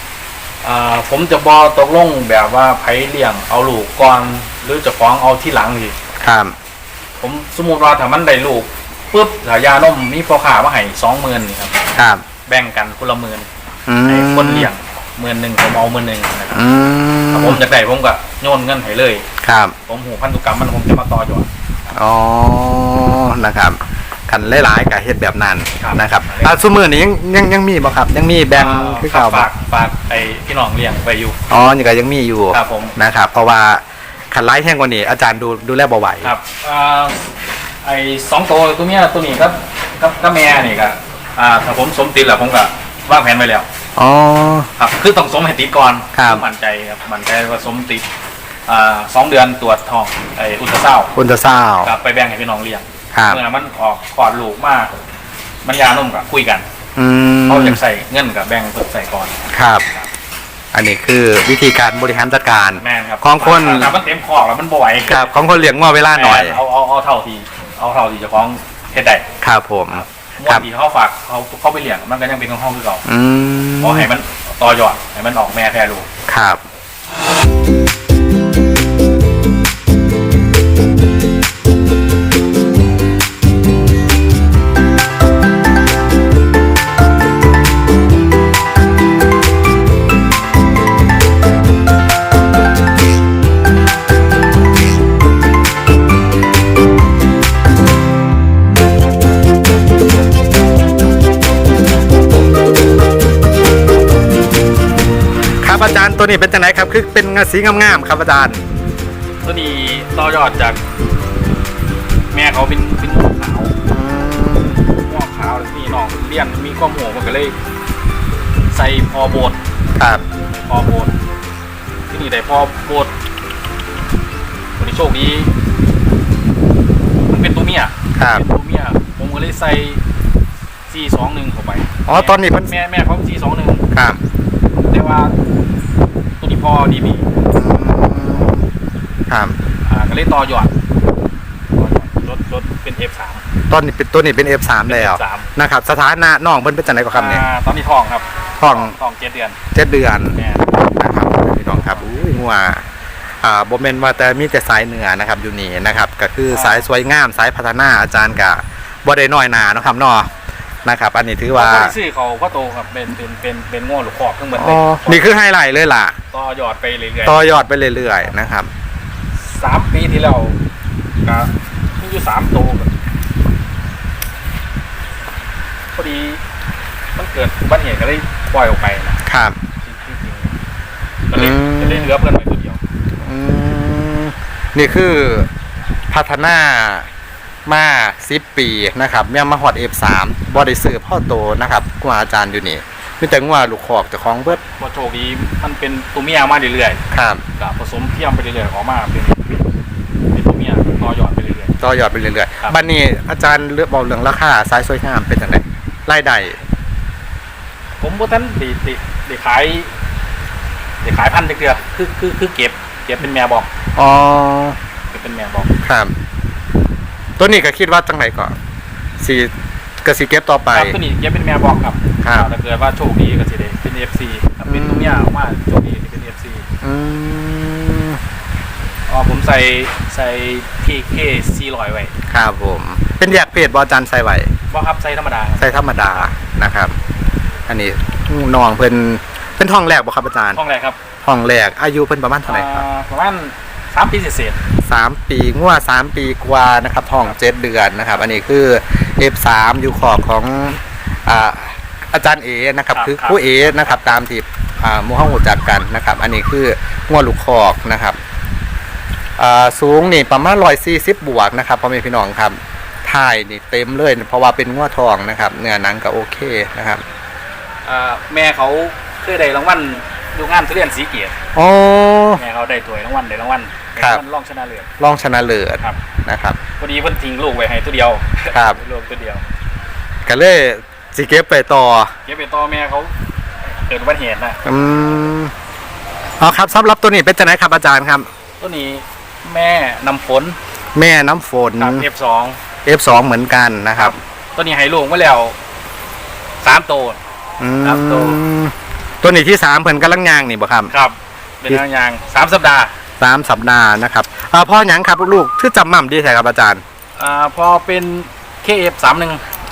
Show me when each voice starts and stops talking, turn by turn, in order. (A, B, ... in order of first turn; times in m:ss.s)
0:00.6-0:06.0 A
0:06.2-0:06.6 B
0:07.2-0:11.8 A
0:12.0-0:12.2 B
0:12.5-0:13.5 A
0:13.9-0:14.7 B
0:14.0-0:16.6 A
0:16.5-0:17.6 B
0:17.3-0:19.2 A
0:19.4-0:19.8 B
0:19.9-0:21.5 A
0:21.9-0:29.5 B
0:25.8-0:26.6 A
0:28.5-0:31.4 A
0:31.5-0:36.3 B
0:32.5-0:33.0 A
0:36.2-0:37.3 A
0:37.8-0:43.7 A
0:44.0-0:44.7 B
0:44.8-0:48.0 A
0:46.1-0:46.4 B
0:48.7-0:51.1 A
0:51.2-0:51.9 B
0:51.8-0:54.9 A
0:53.1-0:53.4 B
0:55.6-0:56.7 A
0:57.0-0:57.8 B
0:57.5-1:00.1 A
0:59.5-0:59.8 B
1:00.7-1:03.9 B
1:02.8-1:05.4 A
1:05.1-1:06.6 B
1:06.1-1:09.2 A
1:09.4-1:10.7 B
1:09.9-1:13.0 A
1:13.0-1:14.1 B
1:13.8-1:16.1 A
1:16.3-1:16.6 B
1:45.6-1:48.7 B
1:49.4-1:50.8 A
1:52.3-1:53.7 A
1:53.9-1:54.8 B
1:54.8-1:57.6 A
1:58.7-1:59.6 A
2:00.0-2:00.2 B
2:00.5-2:01.1 A
2:02.1-2:03.1 A
2:04.8-2:05.5 A
2:07.3-2:10.0 A
2:08.2-2:08.4 B
2:10.9-2:13.8 A
2:12.1-2:12.7 B
2:13.9-2:14.2 B
2:14.9-2:15.4 A
2:16.4-2:17.3 A
2:17.5-2:18.7 B
2:19.3-2:19.6 B
2:19.9-2:20.7 A
2:21.7-2:23.4 A
2:23.7-2:27.5 B
2:24.9-2:25.5 A
2:27.1-2:29.6 A
2:28.6-2:29.0 B
2:29.7-2:32.8 B
2:30.4-2:30.8 A
2:33.4-2:40.3 B
2:36.5-2:36.9 A
2:40.8-2:42.0 B
2:41.5-2:45.3 A
2:44.6-2:46.2 B
2:46.3-2:47.5 A
2:47.3-2:48.7 B
2:49.4-2:50.6 A
2:51.2-2:52.9 A
2:55.9-2:56.4 A
2:57.2-2:59.2 A
2:59.2-2:59.6 B
2:59.8-3:00.6 A
3:01.3-3:02.8 A
3:01.4-3:02.2 B
3:03.2-3:05.5 B
3:06.1-3:07.1 B
3:07.7-3:14.6 B
3:14.5-3:17.0 A
3:17.1-3:17.4 B
3:17.6-3:19.6 A
3:20.3-3:21.8 A
3:21.8-3:26.6 B
3:28.0-3:29.9 A
3:31.0-3:33.7 A
3:34.0-3:34.8 B
3:35.1-3:35.7 A
3:35.8-3:36.1 B
3:37.4-3:38.6 B
3:39.2-3:39.5 B
3:40.0-3:41.0 B
3:40.7-3:46.6 A
3:42.2-3:42.5 B
3:44.6-3:45.3 B
3:46.8-3:48.2 B
3:49.1-3:52.1 A
3:52.3-3:54.5 B
3:54.7-3:56.3 A
3:55.6-3:56.9 B
3:57.7-4:00.6 B
4:00.5-4:01.0 A
4:01.2-4:02.8 B
4:02.5-4:04.6 A
4:04.9-4:18.2 B
4:12.9-4:13.6 A
4:19.4-4:27.0 B
4:27.8-4:31.4 A
4:31.6-4:32.4 B
4:32.4-4:34.9 A
4:35.0-4:36.6 B
4:36.8-4:39.4 A
4:38.5-4:38.8 B
4:40.2-4:42.1 B
4:42.2-4:43.1 A
4:43.6-4:44.6 A
4:44.6-4:45.5 B
4:46.4-4:48.3 B
4:48.6-4:50.6 A
4:51.0-4:52.1 B
4:51.8-4:52.6 A
4:52.8-4:54.2 B
4:54.0-4:55.6 A
4:56.6-4:57.2 A
4:57.6-5:00.9 B
4:57.8-4:58.4 A
5:00.9-5:02.9 A
5:03.2-5:06.8 B
5:07.2-5:09.4 A